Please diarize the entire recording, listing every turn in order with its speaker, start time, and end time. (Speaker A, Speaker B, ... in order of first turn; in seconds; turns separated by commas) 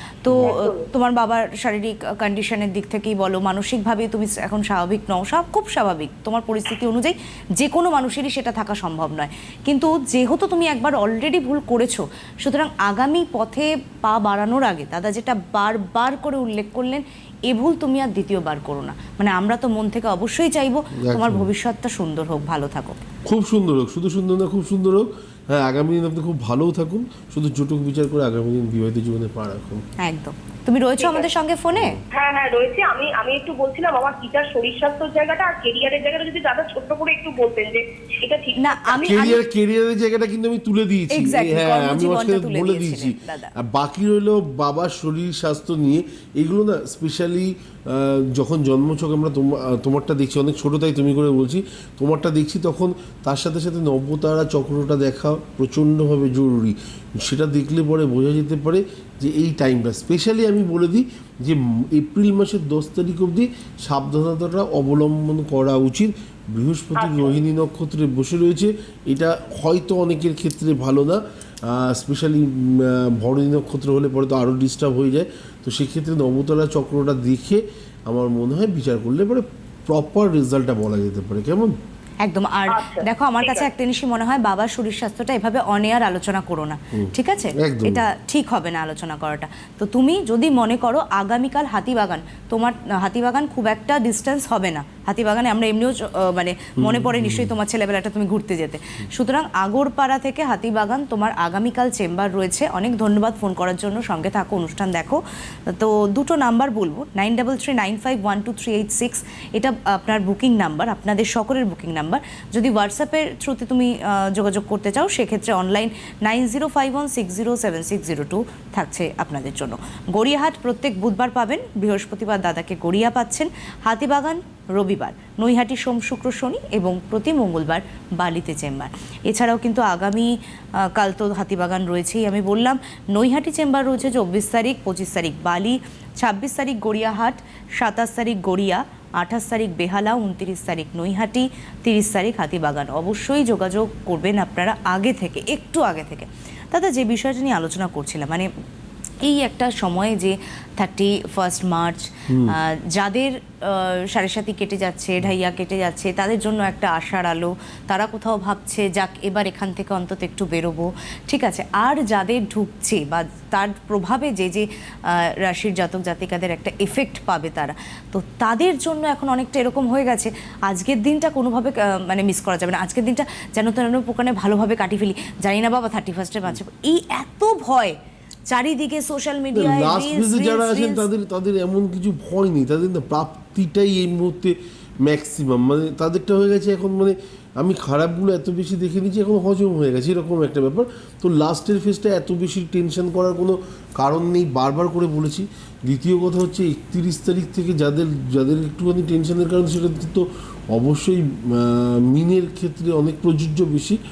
Speaker A: 0.2-23.0, Speaker B: 0.3-0.6, Speaker C: 0.4-0.9, Speaker B: 21.0-21.5, Speaker B: 23.3-29.9, Speaker A: 30.0-32.0, Speaker C: 31.0-31.3, Speaker B: 31.7-32.0, Speaker C: 32.1-39.2, Speaker A: 38.6-39.4, Speaker B: 39.0-81.8, Speaker A: 41.1-43.5, Speaker C: 67.0-67.4, Speaker A: 82.2-130.3, Speaker C: 82.7-83.7, Speaker B: 86.9-88.0, Speaker B: 96.8-97.5, Speaker A: 130.8-148.5, Speaker A: 149.2-178.0, Speaker B: 152.3-152.6, Speaker A: 178.5-181.1, Speaker B: 179.5-204.0